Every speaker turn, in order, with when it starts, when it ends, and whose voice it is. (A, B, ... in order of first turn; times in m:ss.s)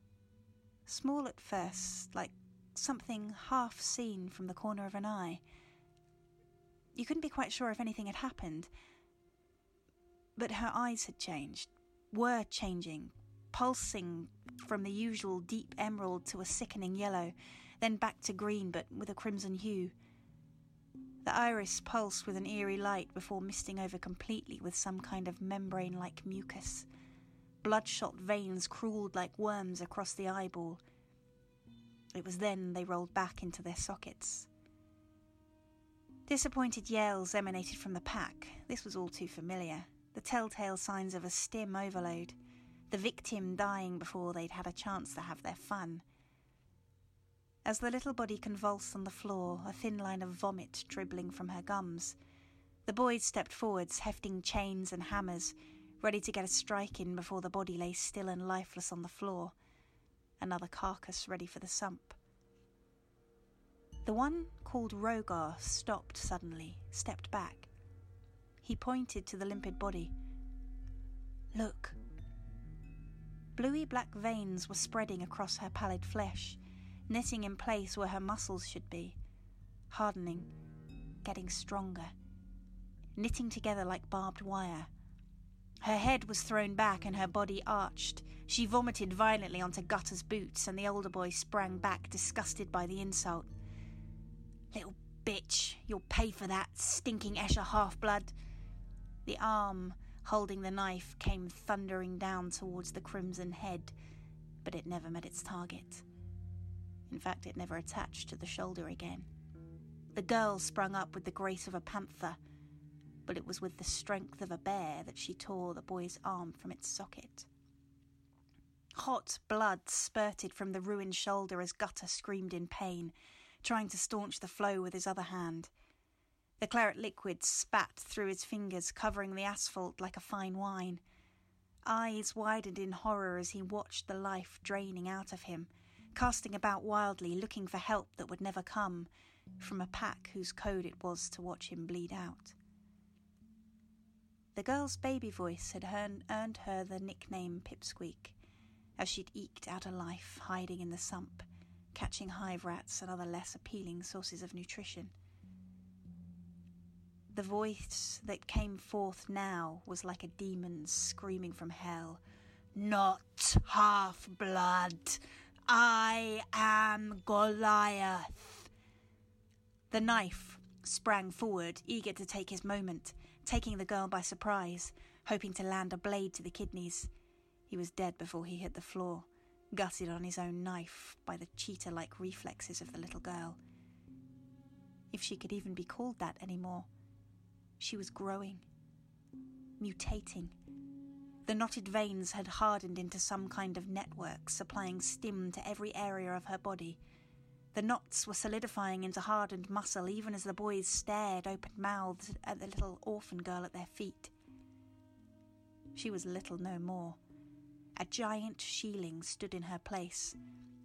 0:00.8-0:05.4 A
0:06.9-0:08.7 A
0:10.4-0:19.9 A
0:21.2-0:26.8 A
0:27.6-0:30.8 A
0:32.1-0:34.5 A
0:36.3-0:42.4 A
0:42.9-0:46.0 A
0:47.6-0:52.2 A
0:52.8-0:59.5 A
1:00.4-1:02.2 A
1:04.0-1:07.7 A
1:08.6-1:10.1 A
1:11.5-1:11.9 A
1:13.5-1:16.6 A
1:17.1-1:19.2 A
1:19.9-1:20.5 A
1:21.2-1:22.1 A
1:23.2-1:24.9 A
1:25.8-1:33.5 A
1:34.7-1:38.3 A
1:39.2-1:43.9 A
1:44.6-1:46.0 A
1:47.1-1:49.3 A
1:50.1-1:52.4 A
1:53.2-1:57.5 A
1:59.0-2:05.7 A
2:06.6-2:11.0 A
2:11.8-2:19.1 A
2:19.6-2:22.5 A
2:24.5-2:28.3 A
2:29.0-2:35.1 A
2:37.3-2:42.2 A
2:42.7-2:48.7 A
2:49.9-2:57.1 A
2:57.7-3:03.6 A
3:05.1-3:06.9 A
3:07.8-3:08.6 A
3:09.8-3:10.5 A
3:11.4-3:17.0 A
3:17.7-3:24.3 A
3:25.9-3:27.2 A
3:28.0-3:30.4 A